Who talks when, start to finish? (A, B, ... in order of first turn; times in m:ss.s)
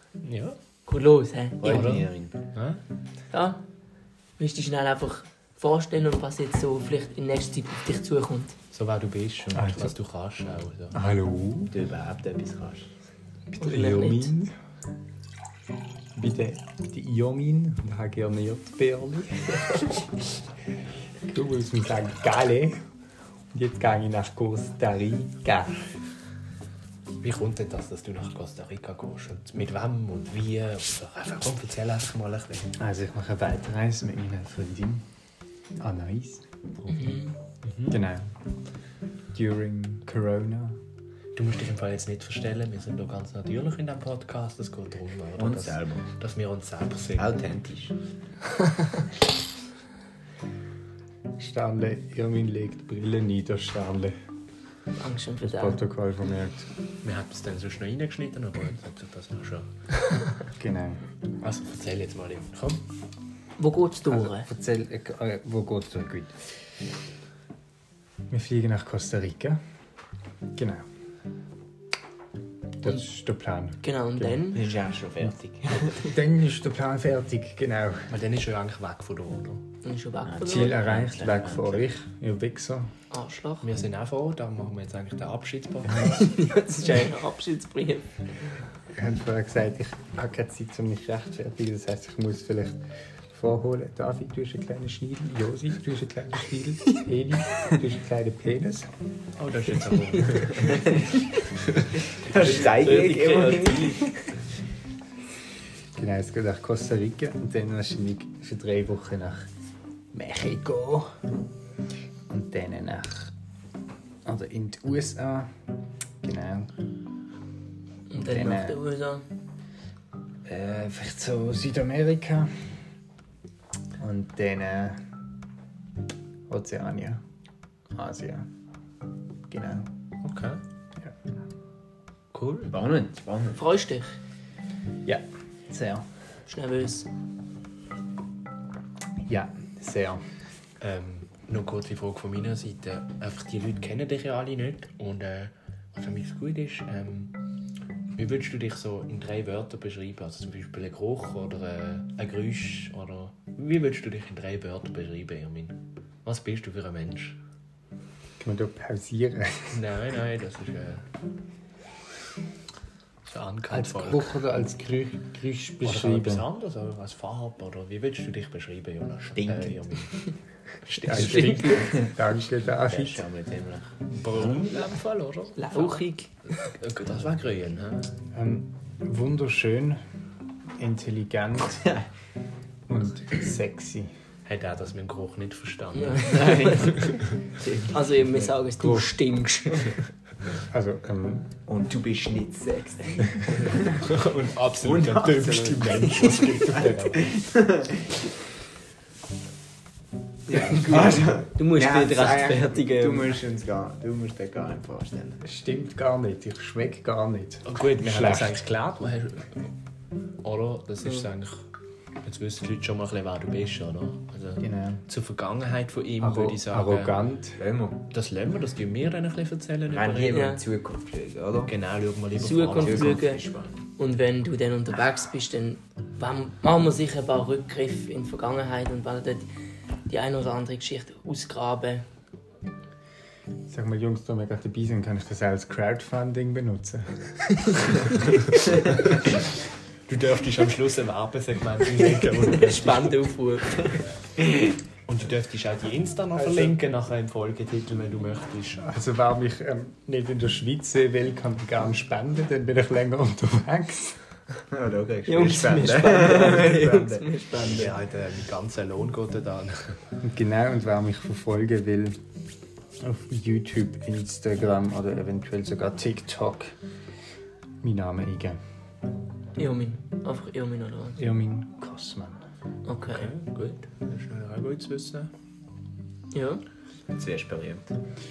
0:00.2-0:00.6 A
0:00.9-0:02.0 B
0:01.6-0:02.4 C
0:01.6-0:02.8 A
0:03.3-0:03.6 B
0:04.4-0:08.6 B
0:08.7-0:11.0 A
0:09.5-0:09.9 D
0:10.9-0:11.7 D
0:11.7-0:12.9 C
0:13.5-0:14.5 D
0:13.6-0:14.3 B
0:16.2-0:20.0 D
0:21.2-0:22.8 D
0:23.5-0:25.8 D
0:27.2-0:32.7 A
0:32.8-0:35.0 D
0:35.8-0:36.4 D
0:36.9-0:37.3 B
0:37.7-0:38.0 A
0:37.9-0:38.3 D
0:39.3-0:40.8 D
0:41.4-0:47.4 A
0:45.4-0:46.1 C
0:47.2-0:48.0 C
0:51.4-0:54.1 D
0:55.0-0:55.8 B
0:55.4-0:56.7 D
0:57.0-0:59.7 A
1:00.6-1:01.0 D
1:01.4-1:02.8 A
1:03.6-1:04.5 B
1:04.1-1:06.5 D
1:08.3-1:09.6 D
1:10.5-1:10.8 D
1:12.8-1:14.4 D
1:13.8-1:14.6 B
1:14.5-1:16.1 C
1:15.8-1:18.1 D
1:18.1-1:19.6 A
1:19.8-1:20.8 B
1:20.2-1:21.9 C
1:20.4-1:22.9 D
1:23.1-1:23.7 B
1:23.6-1:26.2 A
1:26.0-1:28.1 B
1:29.0-1:32.8 D
1:33.3-1:38.9 D
1:39.4-1:42.7 A
1:42.2-1:44.1 C
1:42.4-1:44.2 B
1:46.0-1:49.5 D
1:50.1-1:51.1 D
1:52.3-1:53.3 D
1:54.2-1:55.5 D
1:56.2-1:56.7 D
1:58.1-1:59.3 B
1:58.2-1:58.8 D
2:00.5-2:02.5 D
2:04.0-2:05.0 D
2:06.5-2:07.2 D
2:08.0-2:08.5 D
2:09.5-2:09.9 D
2:10.2-2:10.6 A
2:12.3-2:12.7 A
2:12.7-2:13.6 C
2:13.6-2:14.2 B
2:15.0-2:16.0 D
2:16.5-2:17.1 B
2:19.3-2:20.2 D
2:20.8-2:27.3 A
2:28.2-2:37.4 A
2:38.4-2:39.8 D
2:39.7-2:41.0 A
2:43.2-2:44.3 A
2:43.7-2:46.4 D
2:45.8-2:51.8 A
2:49.4-2:49.8 C
2:51.0-2:53.2 D
2:52.9-2:54.7 C
2:54.1-2:58.2 A
2:55.6-2:56.7 B
2:58.3-3:00.0 D
3:00.8-3:01.8 D
3:01.7-3:02.0 C
3:02.9-3:04.1 D
3:04.5-3:06.7 A
3:06.0-3:07.2 B
3:06.2-3:08.4 C
3:07.9-3:10.0 B
3:08.8-3:09.2 D
3:10.7-3:11.6 D
3:11.7-3:14.0 C
3:13.9-3:17.2 A
3:14.8-3:18.2 C
3:20.5-3:25.4 C
3:20.7-3:23.4 B
3:25.4-3:28.6 D
3:27.7-3:29.7 A
3:30.4-3:31.7 A
3:32.2-3:37.2 A
3:34.6-3:35.0 D
3:36.2-3:37.6 D
3:37.6-3:38.0 C
3:38.1-3:40.6 A
3:39.9-3:41.7 C
3:40.3-3:40.6 B
3:41.7-3:43.2 A
3:42.4-3:43.4 B
3:42.7-3:43.8 C
3:44.0-3:49.5 B
3:50.1-3:52.0 B
3:53.7-3:57.4 D
4:00.1-4:03.1 A
4:02.5-4:04.0 B
4:05.1-4:08.9 A
4:06.4-4:06.7 C
4:08.8-4:14.2 D
4:14.7-4:17.3 C
4:15.3-4:18.0 B
4:17.6-4:20.0 A
4:20.2-4:22.2 D
4:23.0-4:26.8 D
4:27.8-4:28.6 D
4:29.6-4:31.2 B
4:31.2-4:32.4 D
4:32.8-4:33.3 B
4:33.1-4:35.3 A
4:36.3-4:36.6 B
4:37.1-4:38.0 C